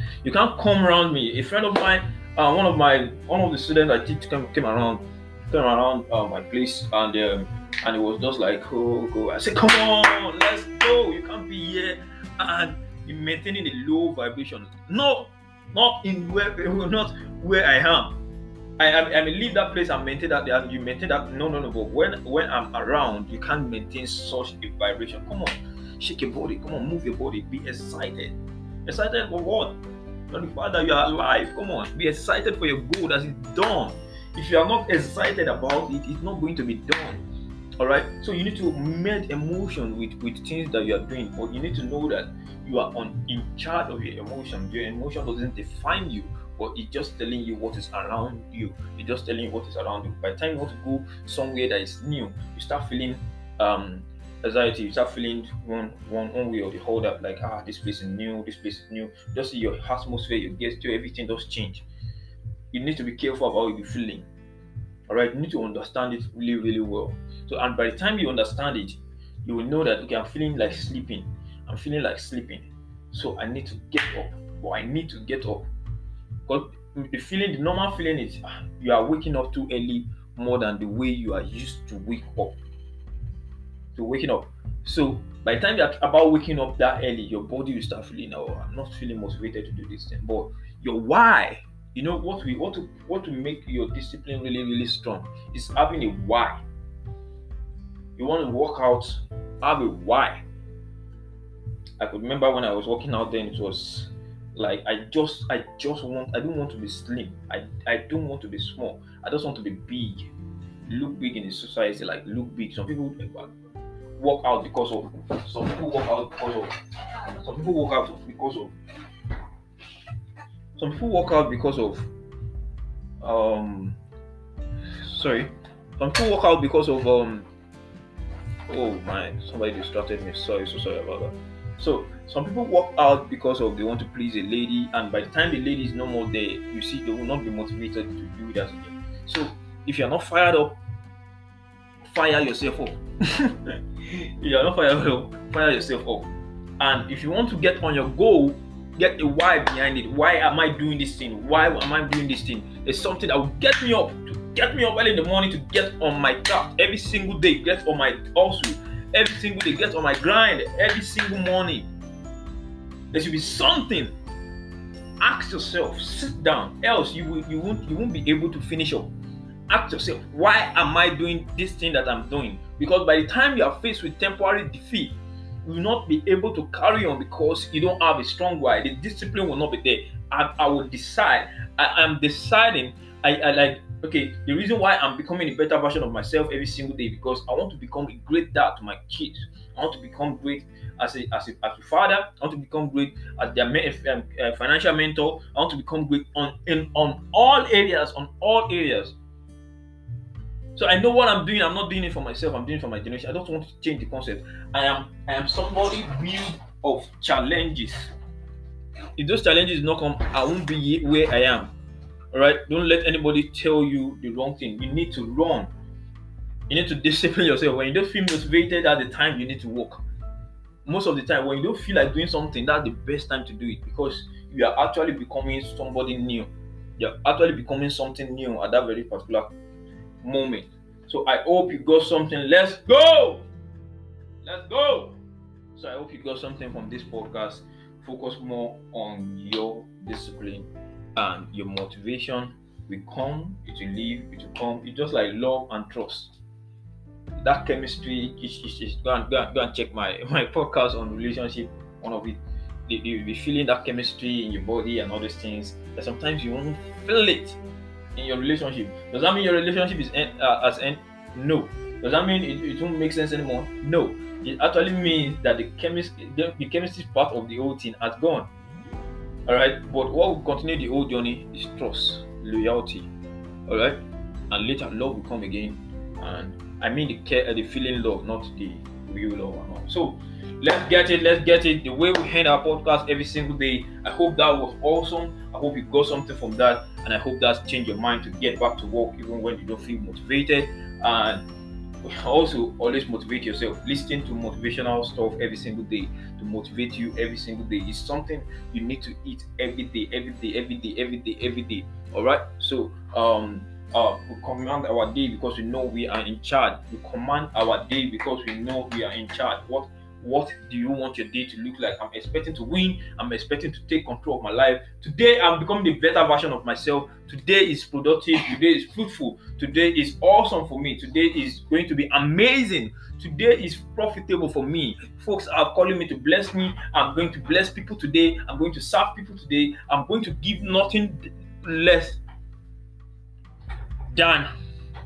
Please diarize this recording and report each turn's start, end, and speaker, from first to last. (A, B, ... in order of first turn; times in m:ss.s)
0:00.2-0:18.2 A
0:18.8-0:29.8 A
0:30.3-0:37.2 A
0:37.8-1:01.8 A
1:02.7-1:04.3 A
1:05.1-1:15.7 A
1:16.5-1:22.6 A
1:23.9-1:36.6 A
1:38.2-1:40.4 A
1:42.0-1:50.3 A
1:50.9-1:53.5 A
1:54.2-1:56.7 A
1:57.3-1:58.8 A
2:00.8-2:02.1 A
2:03.2-2:04.0 A
2:05.0-2:07.5 A
2:08.7-2:20.8 A
2:22.0-2:23.7 A
2:24.2-2:41.9 A
2:43.1-2:44.2 A
2:45.2-2:49.1 A
2:49.7-3:19.2 A
3:20.8-3:28.1 A
3:29.2-3:31.7 A
3:32.3-3:35.7 A
3:36.7-3:40.0 A
3:40.8-3:49.5 A
3:50.2-3:53.5 A
3:54.4-3:55.2 A
3:55.8-4:06.3 A
4:07.4-4:17.6 A
4:18.2-4:28.5 A
4:29.5-4:33.1 A
4:33.7-4:51.4 A
4:52.0-5:32.2 A
5:34.1-5:34.5 A